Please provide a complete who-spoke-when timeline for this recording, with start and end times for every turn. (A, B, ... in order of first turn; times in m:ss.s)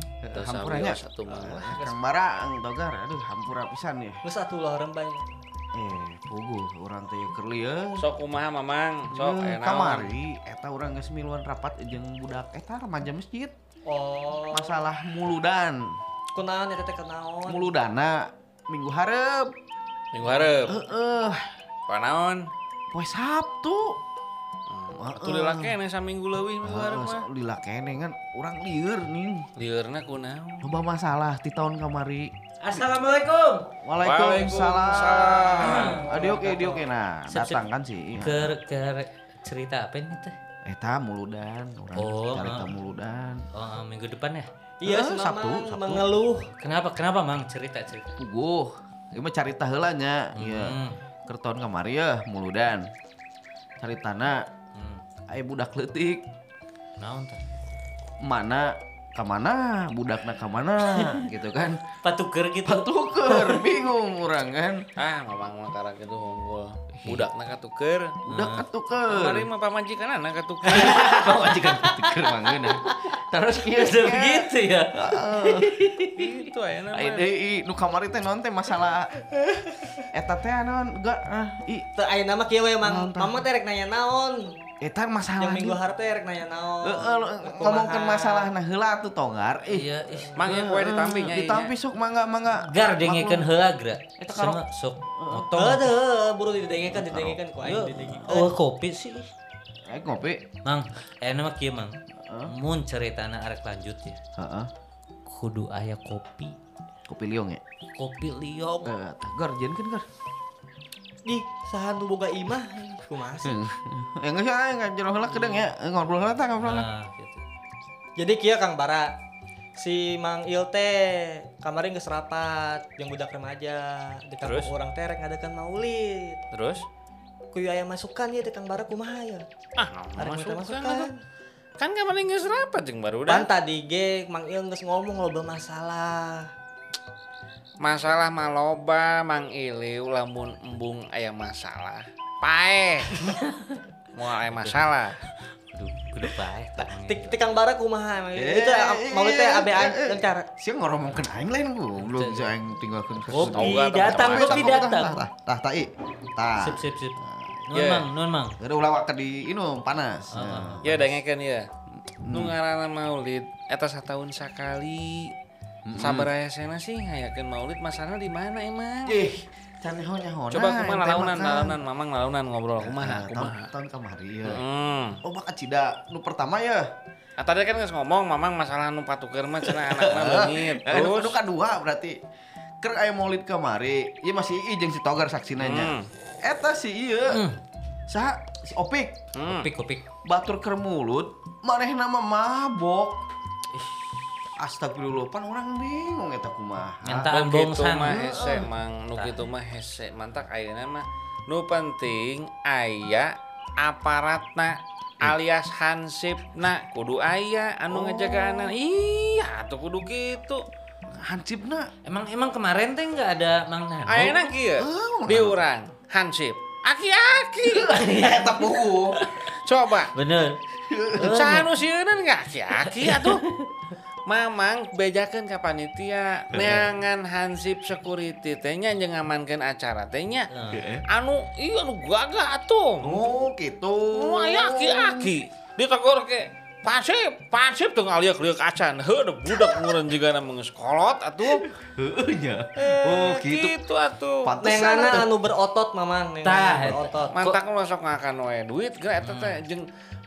0:00.2-0:04.2 A
0:00.4-0:02.0 B
0:04.2-0:05.3 C
0:05.7-0:08.1 A
0:08.0-0:10.2 B
0:09.1-0:13.6 A
0:13.9-0:14.8 C
0:14.5-0:16.0 A
0:16.3-0:17.7 C
0:17.5-0:19.5 A
0:20.1-0:20.8 B
0:20.7-0:21.4 A
0:21.9-0:22.5 B
0:22.9-0:24.0 A
0:24.7-0:27.3 B
0:25.0-0:25.7 A
0:26.6-0:29.5 A
0:29.6-0:30.7 B
0:30.6-0:32.9 A
0:32.6-0:33.6 D
0:33.8-0:38.6 A
0:34.0-0:36.0 B
0:35.6-0:36.7 D
0:37.3-0:37.6 D
0:38.2-0:40.3 D
0:40.7-0:43.4 A
0:42.0-0:42.7 D
0:43.5-0:44.5 D
0:44.8-0:46.5 C
0:44.8-0:46.1 A
0:46.6-0:48.1 D
0:48.2-0:52.9 A
0:50.4-0:51.0 D
0:53.8-0:54.4 A
0:54.8-0:55.0 D
0:55.3-0:56.2 A
0:57.0-0:57.4 D
0:58.2-1:01.8 A
1:02.0-1:03.8 D
1:02.6-1:04.9 A
1:05.0-1:08.2 B
1:08.2-1:09.5 A
1:08.3-1:08.6 D
1:09.1-1:10.9 B
1:10.7-1:16.0 A
1:10.7-1:16.3 D
1:16.2-1:17.3 B
1:16.9-1:19.1 A
1:19.4-1:19.9 C
1:20.1-1:21.9 A
1:22.0-1:24.5 C
1:22.8-1:23.4 A
1:24.8-1:25.8 A
1:25.4-1:28.5 C
1:26.8-1:33.5 A
1:29.7-1:30.4 D
1:30.4-1:31.7 B
1:32.7-1:35.9 D
1:34.2-1:35.5 A
1:35.6-1:38.5 C
1:36.9-1:37.4 A
1:37.6-1:39.3 D
1:39.9-1:40.5 A
1:40.6-1:41.9 D
1:42.3-1:42.6 A
1:42.5-1:44.2 D
1:44.4-1:44.7 A
1:45.3-1:46.6 D
1:47.1-1:47.6 A
1:48.0-1:48.9 D
1:48.8-1:50.0 A
1:51.2-1:53.6 C
1:53.4-1:56.9 A
1:55.2-1:55.7 D
1:56.6-1:57.4 D
1:58.2-1:59.2 C
1:59.8-2:06.4 C
2:04.4-2:04.7 B
2:06.5-2:06.8 B
2:07.5-2:09.5 C
2:09.8-2:11.1 B
2:10.2-2:11.2 C
2:11.8-2:13.5 B
2:13.3-2:16.5 C
2:17.8-2:23.2 B
2:23.2-2:23.7 D
2:24.1-2:25.2 B
2:25.7-2:27.4 D
2:26.8-2:30.5 C
2:28.4-2:37.6 A
2:32.0-2:32.5 D
2:33.3-2:35.2 D
2:33.3-2:34.8 B
2:36.6-2:37.2 D
2:37.7-2:38.6 D
2:37.7-2:38.1 B
2:38.6-2:41.0 A
2:40.3-2:41.2 D
2:40.8-2:41.7 B
2:42.2-2:42.6 A
2:42.3-2:45.3 B
2:45.9-2:46.3 A
2:46.0-2:49.2 B
2:49.1-2:51.8 A
2:50.5-2:53.7 B
2:52.8-2:54.6 A
2:54.4-2:55.2 B
2:55.2-2:56.9 A
2:57.4-3:01.4 B
2:59.6-3:02.2 A
3:02.8-3:07.5 A
3:05.6-3:06.1 B
3:07.3-3:07.6 D
3:08.1-3:09.2 A
3:09.4-3:09.7 B
3:09.5-3:10.0 D
3:10.2-3:13.2 A
3:14.6-3:17.3 A
3:17.0-3:18.2 D
3:17.3-3:30.6 B
3:18.0-3:18.7 A
3:27.9-3:28.8 A
3:31.1-3:31.9 A
3:32.0-3:34.4 D
3:34.1-3:37.9 B
3:34.2-3:35.6 A
3:37.6-3:39.2 A
3:37.9-3:39.3 D
3:39.6-3:40.1 B
3:40.1-3:40.6 D
3:40.8-3:41.6 A
3:41.2-3:41.6 D
3:41.2-3:43.4 B
3:42.9-3:43.7 D
3:44.3-3:50.5 B
3:46.5-3:46.9 A
3:50.5-3:50.8 D
3:50.7-3:51.1 A
3:51.1-3:53.2 B
3:53.0-3:55.3 A
3:54.1-4:01.6 B
3:59.5-3:59.9 A
4:01.4-4:03.8 A
4:03.1-4:04.5 B
4:04.4-4:05.3 A
4:04.6-4:07.4 C
4:06.4-4:07.6 D
4:07.3-4:09.9 B
4:09.2-4:09.6 D